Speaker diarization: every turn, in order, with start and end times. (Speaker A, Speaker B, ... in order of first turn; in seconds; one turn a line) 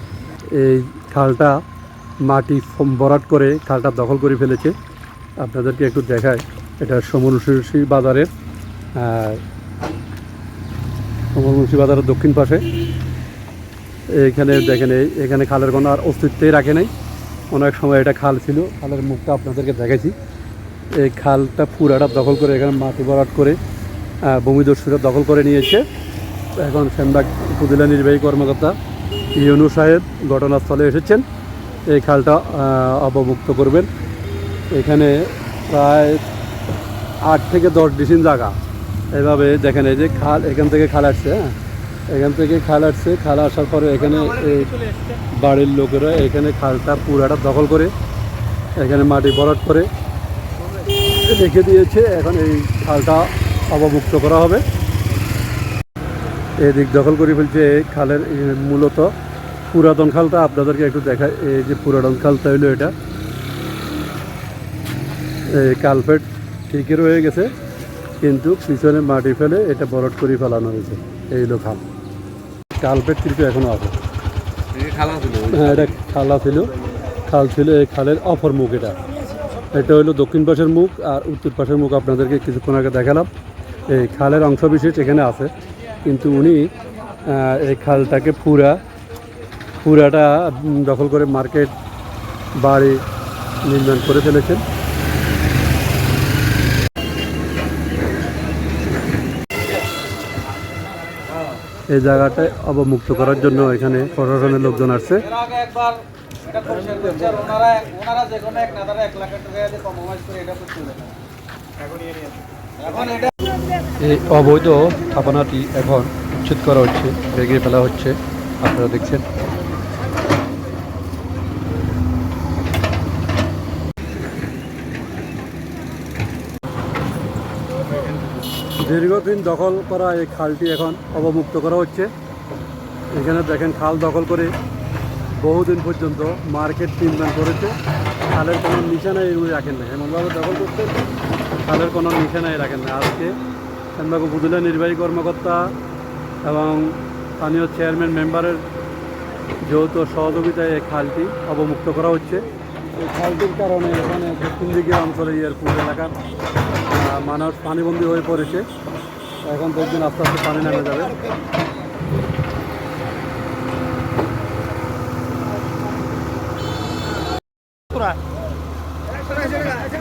Speaker A: 0.5-1.6
Speaker A: 2.2-4.8
Speaker A: 5.4-8.3
Speaker A: 9.0-9.4
Speaker A: 11.3-12.6
Speaker A: 14.1-16.9
Speaker A: 17.5-20.2
Speaker A: 20.9-23.6
Speaker A: 24.2-25.9
Speaker A: 26.6-28.8
Speaker A: 29.4-31.3
Speaker A: 31.9-33.9
Speaker A: 34.7-36.2
Speaker A: 37.2-38.6
Speaker A: 39.1-41.5
Speaker A: 42.1-47.9
Speaker A: 48.8-49.9
Speaker A: 51.1-54.6
Speaker A: 56.6-59.1
Speaker A: 59.7-62.9
Speaker A: 65.5-67.5
Speaker A: 68.2-71.8
Speaker A: 72.8-74.0
Speaker B: 74.9-75.4
Speaker A: 75.3-76.7
Speaker A: 77.3-79.0
Speaker A: 79.7-83.3
Speaker A: 83.9-85.5
Speaker A: 86.0-86.7
Speaker A: 87.2-88.8
Speaker A: 89.8-91.7
Speaker A: 92.6-93.0
Speaker A: 93.6-94.6
Speaker A: 101.9-105.5
Speaker B: 105.5-106.0
Speaker B: 106.5-111.1
Speaker A: 106.8-107.2
Speaker B: 112.9-113.2
Speaker A: 114.0-119.3
Speaker A: 128.8-132.1
Speaker A: 133.1-134.5
Speaker A: 135.4-137.8
Speaker A: 138.3-141.0
Speaker A: 141.6-143.4
Speaker A: 144.0-145.7
Speaker A: 146.4-148.6
Speaker A: 149.6-156.1
Speaker A: 156.9-158.7
Speaker A: 159.4-161.2